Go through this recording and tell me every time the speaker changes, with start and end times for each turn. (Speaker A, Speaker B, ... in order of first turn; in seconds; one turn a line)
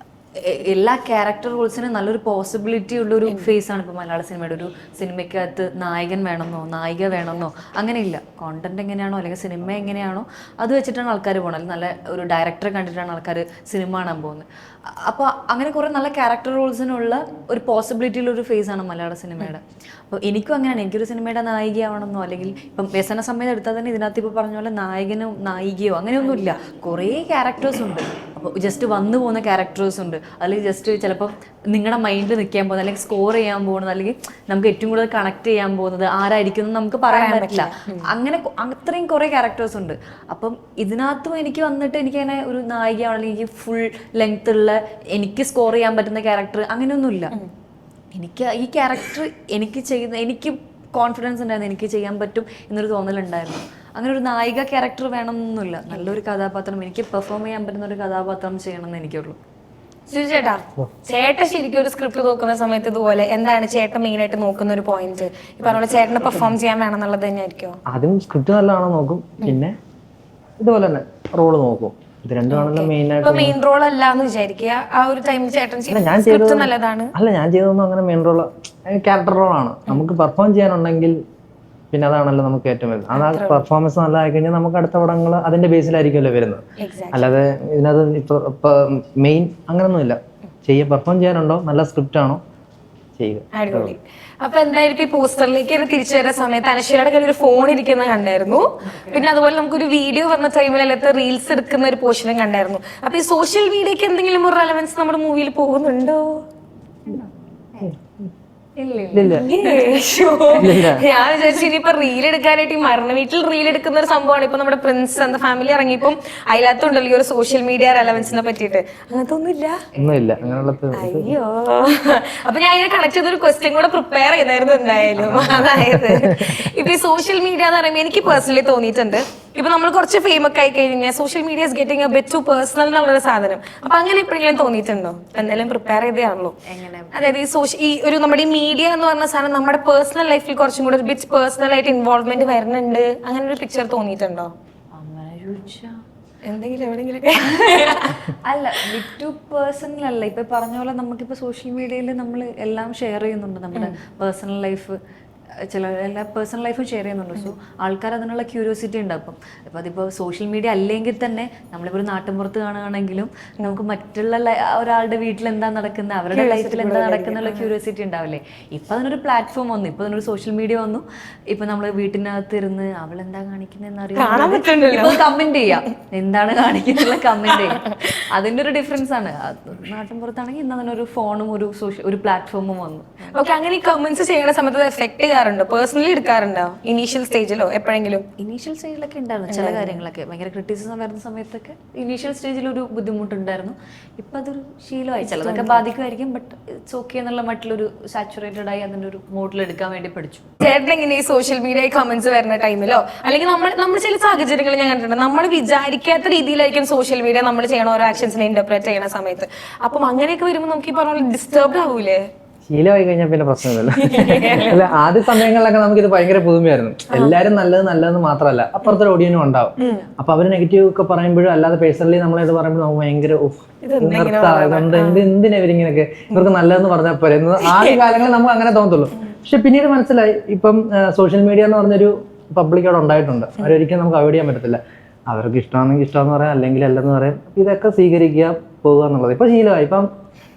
Speaker A: 0.4-47.3
Speaker B: 3.3-3.5
Speaker B: 37.1-38.1
Speaker A: 48.1-59.4
Speaker B: 60.1-67.8
Speaker C: 67.9-69.8
Speaker C: 70.6-73.6
Speaker B: 72.5-77.1
Speaker C: 75.9-81.2
Speaker C: 81.9-92.4
Speaker B: 83.1-83.7
Speaker B: 86.8-87.3
Speaker C: 93.2-94.0
Speaker B: 93.5-106.4
Speaker A: 108.8-109.9
Speaker C: 109.1-109.5
Speaker B: 109.2-119.8
Speaker C: 110.5-111.1
Speaker A: 119.9-120.8
Speaker C: 120.0-121.3
Speaker B: 120.9-136.6
Speaker C: 125.2-126.7
Speaker A: 136.6-137.1
Speaker B: 137.1-144.5
Speaker A: 144.9-146.0
Speaker B: 146.4-148.3
Speaker A: 148.3-155.0
Speaker A: 155.7-183.4
Speaker B: 166.3-167.7
Speaker B: 174.2-175.3
Speaker B: 177.5-178.1
Speaker B: 183.3-188.2
Speaker A: 188.4-200.5
Speaker B: 189.5-190.0
Speaker B: 195.2-195.8
Speaker B: 200.6-212.3
Speaker C: 212.7-240.1
Speaker B: 213.9-215.0
Speaker B: 217.1-217.4
Speaker B: 219.8-220.1
Speaker B: 223.8-225.3
Speaker B: 227.6-228.0